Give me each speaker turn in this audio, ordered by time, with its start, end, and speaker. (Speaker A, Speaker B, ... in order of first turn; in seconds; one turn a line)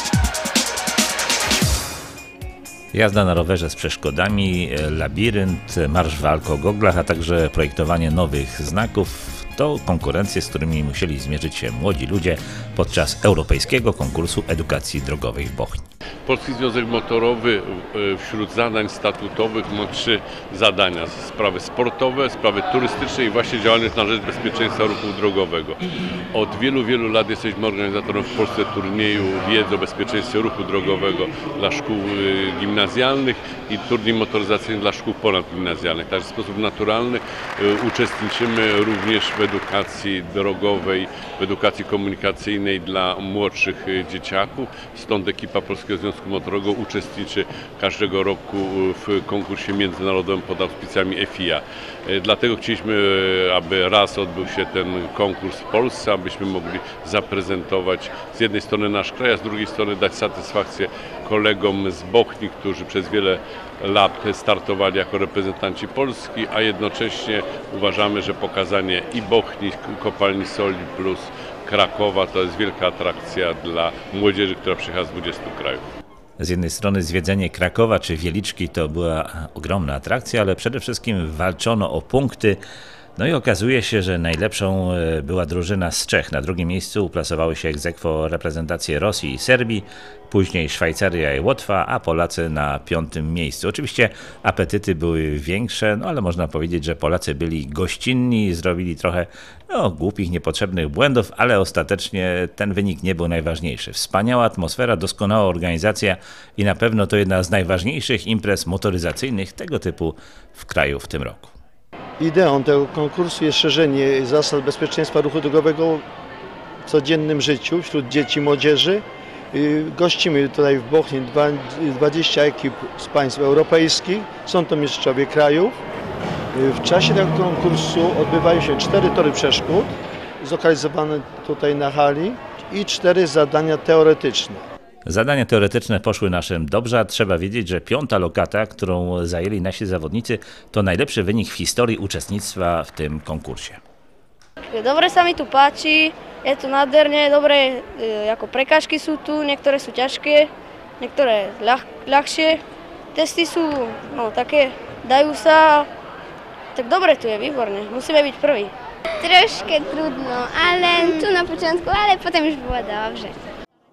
Speaker A: 2.9-15.9
Speaker B: 16.3-25.8
Speaker B: 26.3-75.8
Speaker A: 76.4-82.6
Speaker A: 83.2-111.5
Speaker C: 112.2-116.0
Speaker C: 116.9-125.7
Speaker C: 126.5-134.6
Speaker A: 135.1-143.8
Speaker D: 144.7-150.5
Speaker D: 151.0-152.6
Speaker D: 153.1-155.9
Speaker D: 156.8-158.7
Speaker E: 159.2-163.3